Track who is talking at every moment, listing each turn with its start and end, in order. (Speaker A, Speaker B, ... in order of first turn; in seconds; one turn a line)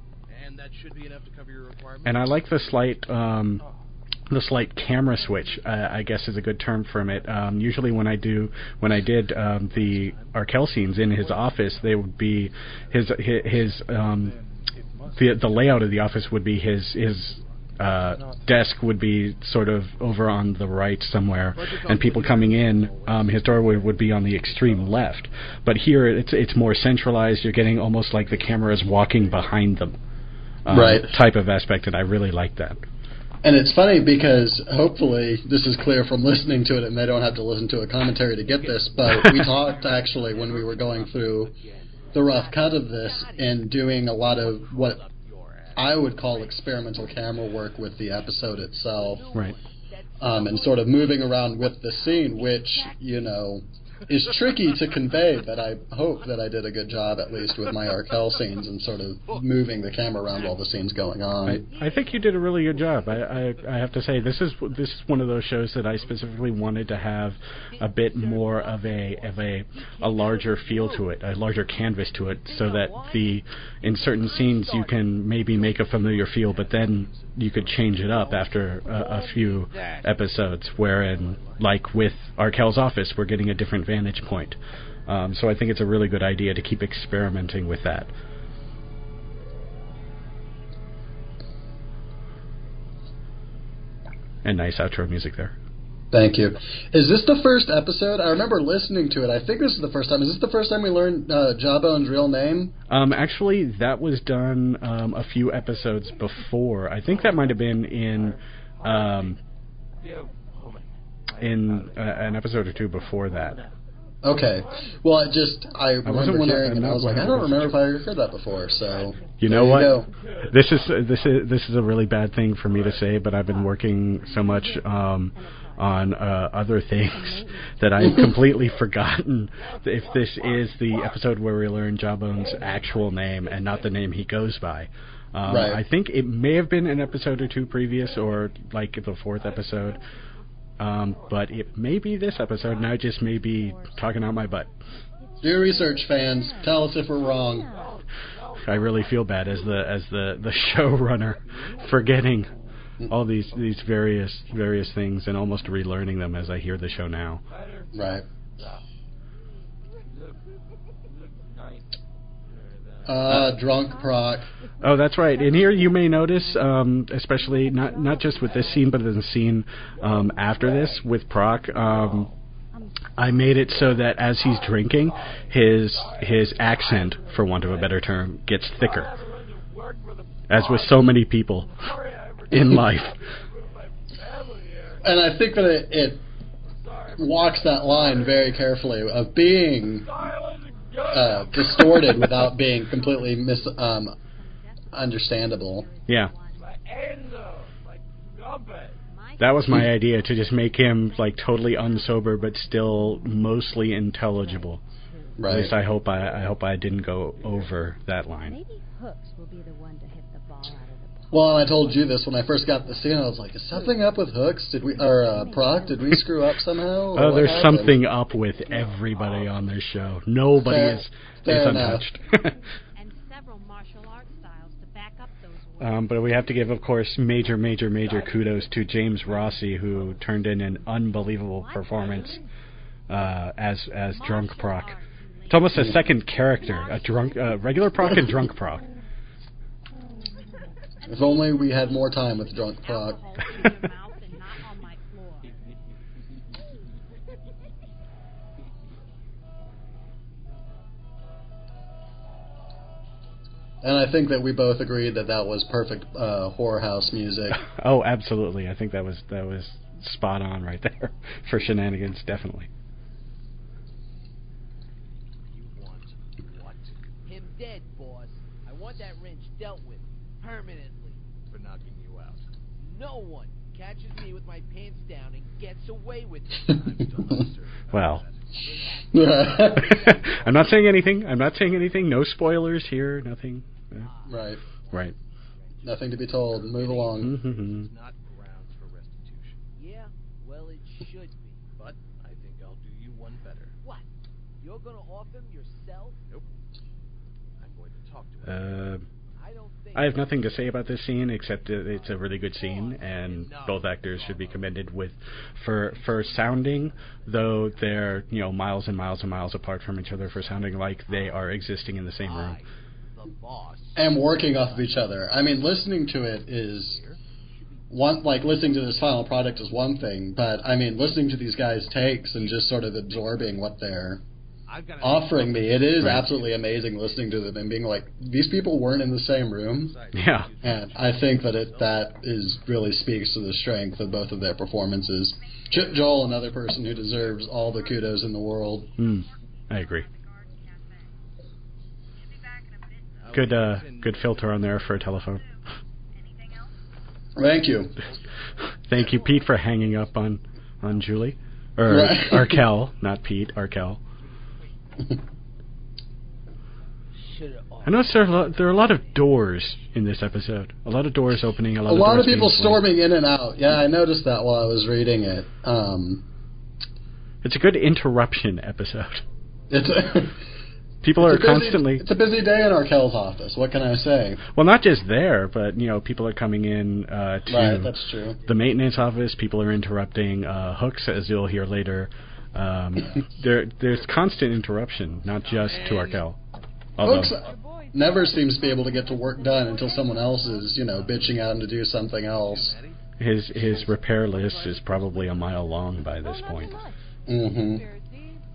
Speaker A: 0.3-2.9
Speaker B: 2.0-3.6
Speaker B: 4.3-14.3
Speaker A: 9.4-12.0
Speaker A: 12.9-15.5
Speaker B: 15.2-29.9
Speaker A: 21.6-25.1
Speaker B: 30.6-32.8
Speaker C: 30.7-31.2
Speaker C: 33.4-41.5
Speaker A: 38.7-43.5
Speaker B: 39.0-39.5
Speaker C: 42.1-45.0
Speaker D: 42.3-43.5
Speaker A: 44.2-46.5
Speaker C: 45.8-49.3
Speaker D: 49.0-51.5
Speaker C: 50.2-61.7
Speaker B: 61.4-88.1
Speaker D: 67.7-71.1
Speaker D: 72.5-73.4
Speaker D: 74.0-75.1
Speaker A: 75.5-78.5
Speaker D: 78.9-80.0
Speaker A: 80.9-81.6
Speaker B: 94.4-95.5
Speaker C: 96.1-102.7
Speaker B: 102.9-109.4
Speaker B: 111.4-113.6
Speaker C: 114.2-120.1
Speaker B: 116.0-117.8
Speaker B: 119.4-140.0
Speaker C: 135.4-135.8
Speaker B: 140.8-144.7
Speaker C: 145.4-147.7
Speaker B: 148.6-152.5
Speaker B: 153.1-157.4
Speaker C: 157.9-158.2
Speaker C: 163.0-164.5
Speaker B: 164.8-172.3
Speaker B: 173.2-179.2
Speaker B: 180.5-181.9
Speaker B: 182.5-183.2
Speaker C: 185.0-186.2
Speaker C: 187.1-190.1
Speaker C: 191.1-194.2
Speaker C: 194.9-195.9
Speaker B: 196.1-196.3
Speaker B: 199.4-204.8
Speaker C: 205.4-205.7
Speaker B: 205.5-208.6
Speaker C: 211.3-217.9
Speaker B: 217.1-222.6
Speaker C: 220.6-222.1
Speaker B: 225.8-232.4
Speaker B: 233.1-238.8
Speaker C: 241.1-243.2
Speaker E: 243.3-245.1
Speaker C: 253.8-257.6
Speaker B: 257.5-262.7
Speaker A: 265.5-267.1
Speaker D: 267.2-271.2
Speaker A: 271.5-272.4
Speaker D: 272.8-276.8
Speaker A: 276.6-280.8
Speaker B: 277.9-278.2
Speaker C: 279.1-280.1
Speaker B: 279.8-284.1
Speaker D: 284.1-284.3
Speaker C: 284.3-284.6
Speaker C: 285.8-287.4
Speaker A: 286.6-289.6
Speaker B: 287.2-287.9
Speaker D: 289.7-291.7
Speaker A: 291.8-293.8
Speaker D: 294.6-296.2
Speaker A: 297.6-298.9
Speaker B: 298.4-299.1
Speaker D: 299.4-300.4
Speaker B: 299.9-312.6
Speaker A: 302.6-304.9
Speaker A: 305.9-308.5
Speaker A: 310.2-311.3
Speaker A: 312.2-312.6
Speaker A: 313.1-315.4
Speaker C: 313.9-317.0
Speaker A: 316.8-317.2
Speaker C: 317.9-324.2
Speaker A: 322.4-322.9
Speaker A: 324.7-326.9
Speaker C: 325.0-330.0
Speaker A: 329.8-332.2
Speaker B: 330.1-330.5
Speaker C: 330.6-338.9
Speaker B: 339.0-340.1
Speaker A: 343.2-344.5
Speaker B: 343.3-345.4
Speaker C: 347.4-347.9
Speaker B: 348.8-354.0
Speaker C: 351.9-352.6
Speaker D: 357.1-358.0
Speaker B: 357.8-362.8
Speaker C: 361.9-366.2
Speaker B: 367.4-369.2
Speaker C: 369.7-370.4
Speaker B: 371.0-372.0
Speaker C: 371.2-374.4
Speaker B: 374.5-386.4
Speaker C: 377.5-378.4
Speaker A: 385.4-386.2
Speaker B: 387.0-387.3
Speaker C: 387.0-392.8
Speaker A: 390.9-391.2
Speaker A: 392.3-393.0
Speaker B: 393.2-396.8
Speaker A: 393.5-395.6
Speaker C: 397.3-397.9
Speaker E: 398.0-398.4